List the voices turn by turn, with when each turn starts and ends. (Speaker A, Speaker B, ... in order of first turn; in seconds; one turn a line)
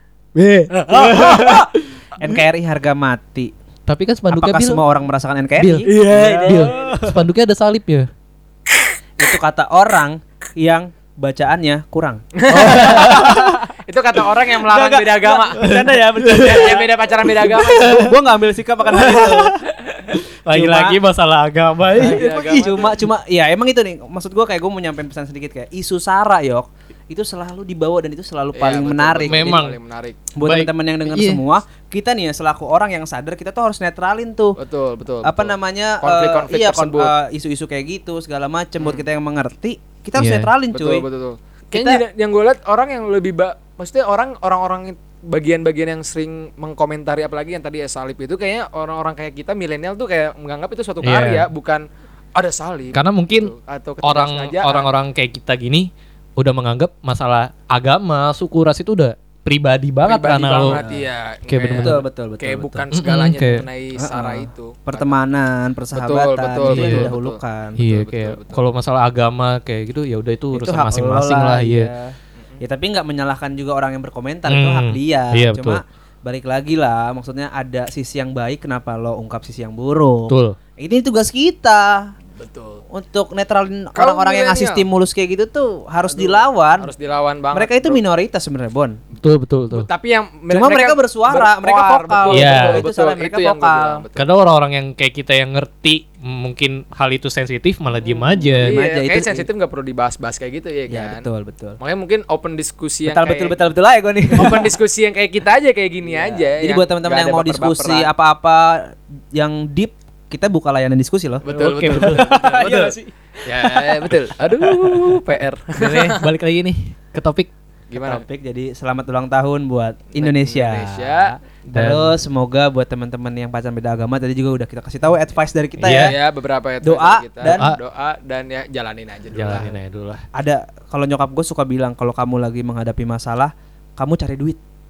Speaker A: 0.3-1.7
Speaker B: 0.8-1.4
Speaker C: 0.9-1.6
Speaker C: 2.2-3.5
Speaker A: 3.9-4.8
Speaker C: 4.3-7.2
Speaker A: 5.6-8.1
Speaker B: 5.9-7.0
Speaker C: 9.2-13.7
Speaker B: 12.4-13.2
Speaker A: 12.5-13.5
Speaker B: 13.9-15.7
Speaker C: 14.5-19.6
Speaker A: 15.6-16.5
Speaker B: 16.3-18.0
Speaker A: 17.4-18.1
Speaker A: 18.9-22.2
Speaker C: 20.5-21.0
Speaker C: 21.9-29.6
Speaker B: 22.0-23.0
Speaker B: 28.5-30.2
Speaker A: 29.2-29.8
Speaker C: 30.3-34.5
Speaker A: 30.4-31.4
Speaker B: 34.6-37.1
Speaker C: 35.2-41.0
Speaker A: 40.2-40.5
Speaker B: 40.7-51.8
Speaker C: 41.7-42.0
Speaker A: 51.0-51.5
Speaker B: 52.4-54.9
Speaker A: 52.9-60.8
Speaker B: 60.0-65.2
Speaker C: 60.7-61.0
Speaker A: 61.5-62.0
Speaker C: 61.7-62.9
Speaker A: 62.9-63.6
Speaker C: 64.0-67.9
Speaker B: 65.9-68.6
Speaker A: 66.7-67.1
Speaker A: 67.8-71.9
Speaker C: 70.5-82.1
Speaker A: 74.5-75.8
Speaker A: 80.3-80.5
Speaker B: 82.4-82.8
Speaker C: 82.9-86.9
Speaker B: 83.9-84.9
Speaker B: 86.1-88.0
Speaker C: 87.5-89.0
Speaker A: 89.2-89.9
Speaker B: 89.7-94.2
Speaker C: 90.5-94.0
Speaker A: 92.3-92.8
Speaker A: 94.2-98.8
Speaker B: 98.0-101.3
Speaker C: 98.4-99.5
Speaker C: 100.9-101.8
Speaker B: 101.8-103.6
Speaker C: 103.0-104.7
Speaker B: 104.3-108.1
Speaker C: 106.0-113.1
Speaker B: 111.4-116.2
Speaker A: 111.5-112.8
Speaker A: 115.8-117.5
Speaker B: 117.9-118.2
Speaker C: 118.0-126.1
Speaker B: 120.1-121.3
Speaker A: 121.7-122.2
Speaker A: 125.8-126.1
Speaker B: 125.9-129.7
Speaker C: 126.8-127.7
Speaker A: 127.5-127.8
Speaker A: 129.3-130.2
Speaker C: 130.3-134.6